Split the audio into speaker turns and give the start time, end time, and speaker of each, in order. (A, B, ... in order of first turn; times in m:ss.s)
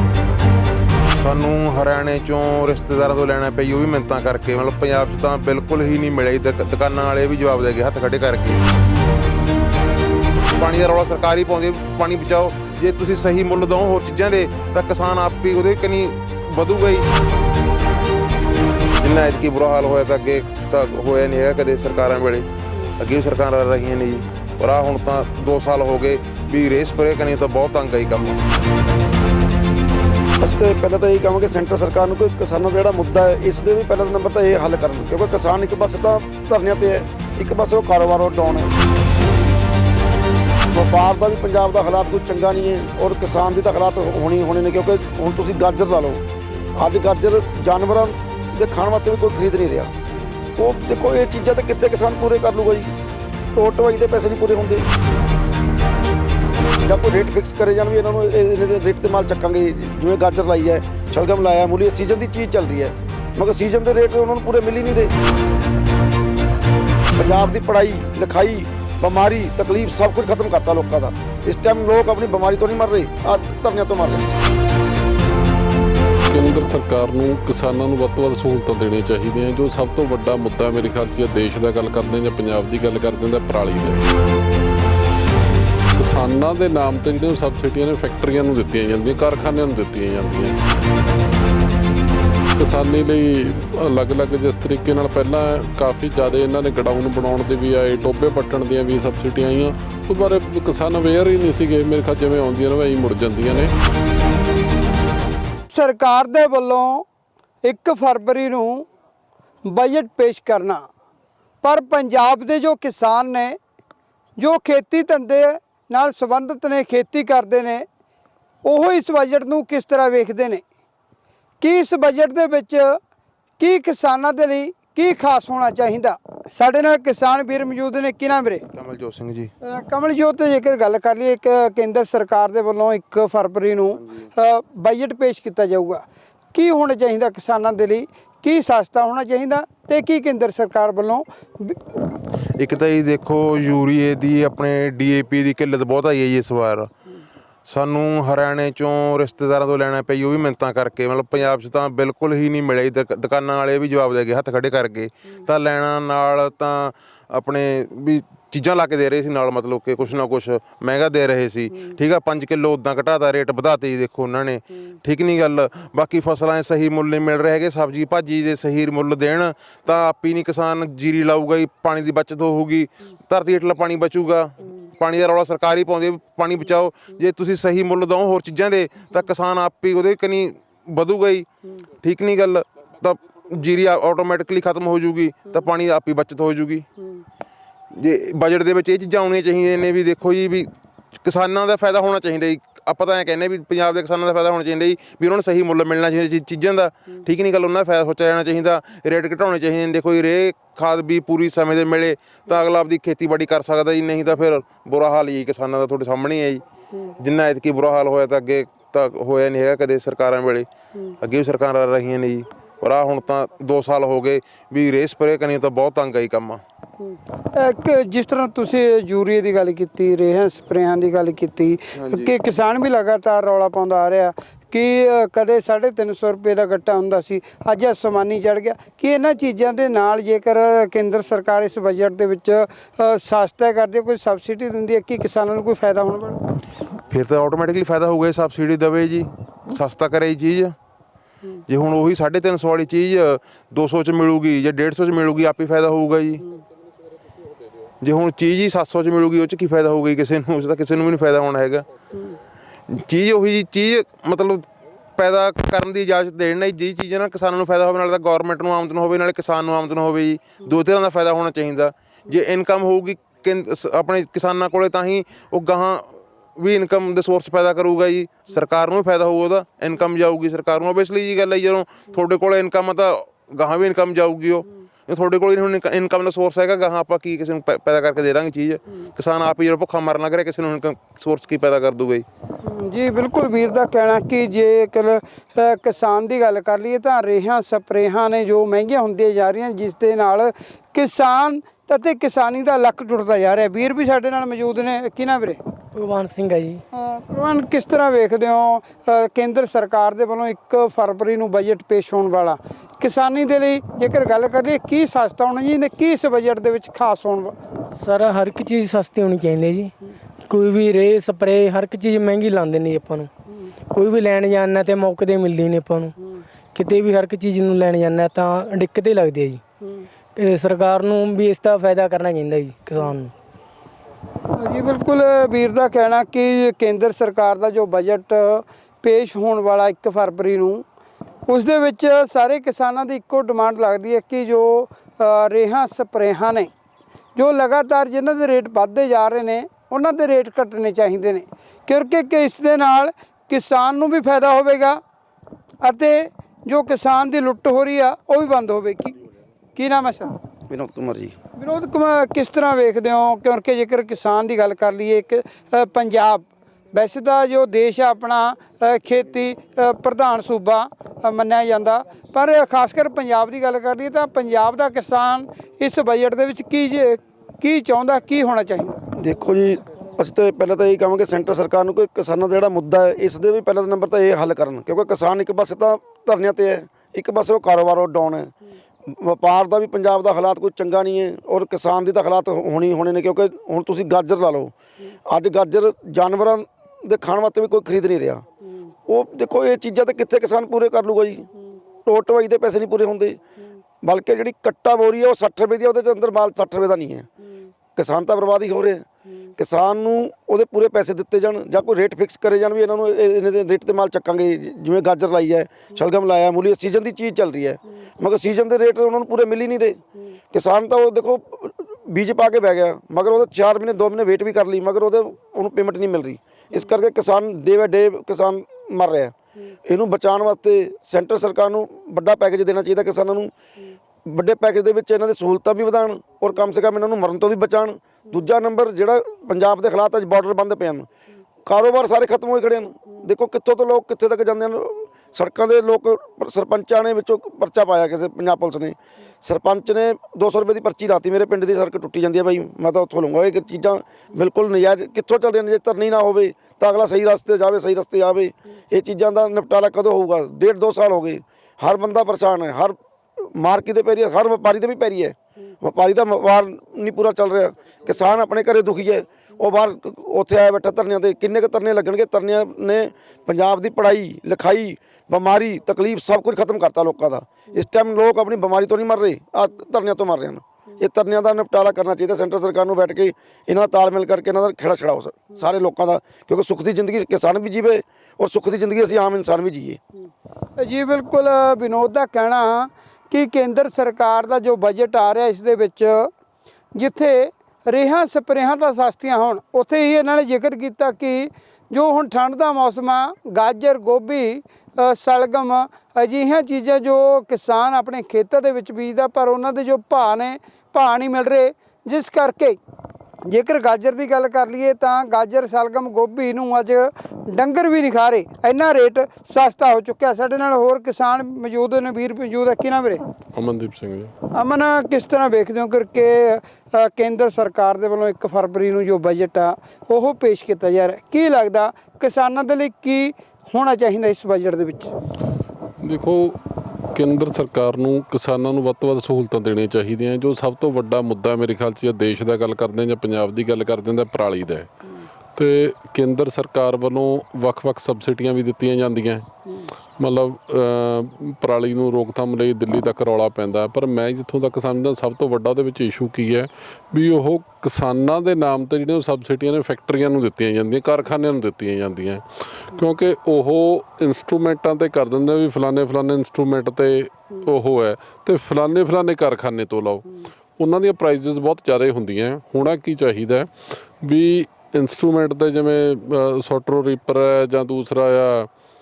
0:01.2-0:08.6 A
0:10.6-0:17.1 A
0:19.0-0:22.4 A
0:23.0-0:28.4 A
0:30.4-0:38.7 B
0:40.7-0:46.2 B
0:46.8-0:49.9 B
0:50.6-0:52.9 B
0:53.6-0:54.9 B
0:56.9-1:05.1 B
1:07.2-1:14.3 B
1:16.3-1:24.1 C
1:26.0-1:30.6 C
1:32.6-1:43.7 C
1:45.7-1:47.1 D
1:47.6-1:48.9 D
1:49.6-1:50.8 D
1:51.6-1:53.6 D
1:54.4-1:57.8 D
1:58.6-2:00.6 D
2:01.6-2:03.0 D
2:03.6-2:08.6 D
2:08.8-2:09.5 A
2:09.6-2:21.8 D
2:22.6-2:26.9 A
2:27.7-3:01.5 A
3:02.0-3:06.9 A
3:08.0-3:10.7 A
3:11.2-3:26.6 A
3:27.2-3:30.7 A
3:31.2-3:36.6 A
3:37.5-3:56.4 D
3:42.0-3:42.3 A
3:57.1-4:00.8 A
4:01.7-4:06.4 A
4:08.0-4:11.9 A
4:12.9-4:42.2 A
4:42.6-4:55.6 D
4:55.9-4:56.8 E
4:56.9-5:07.6 D
5:08.0-5:09.9 E
5:10.4-5:13.3 E
5:13.9-5:16.1 E
5:16.7-5:19.6 E
5:20.4-5:23.3 E
5:24.6-5:30.9 D
5:31.5-5:36.7 D
5:37.4-5:45.0 D
5:45.8-5:49.2 D
5:49.8-5:50.4 D
5:50.7-5:51.4 B
5:51.6-6:09.0 D
6:09.1-6:18.5 B
6:19.1-6:24.7 B
6:25.3-6:28.4 B
6:29.1-6:31.5 B
6:32.0-6:33.4 B
6:34.0-6:37.3 B
6:38.0-6:39.0 B
6:39.6-6:50.0 B
6:50.5-6:59.3 B
6:59.9-7:03.5 B
7:04.2-7:11.1 B
7:11.6-8:00.0 B
8:00.8-8:06.3 D
8:06.9-8:22.8 D
8:23.5-8:33.2 D
8:33.5-8:34.3 C
8:34.5-8:45.1 D
8:46.0-8:46.6 C
8:47.1-8:54.9 C
8:55.6-8:59.5 C
9:00.2-9:20.3 C
9:20.8-9:23.7 C
9:24.2-9:28.7 C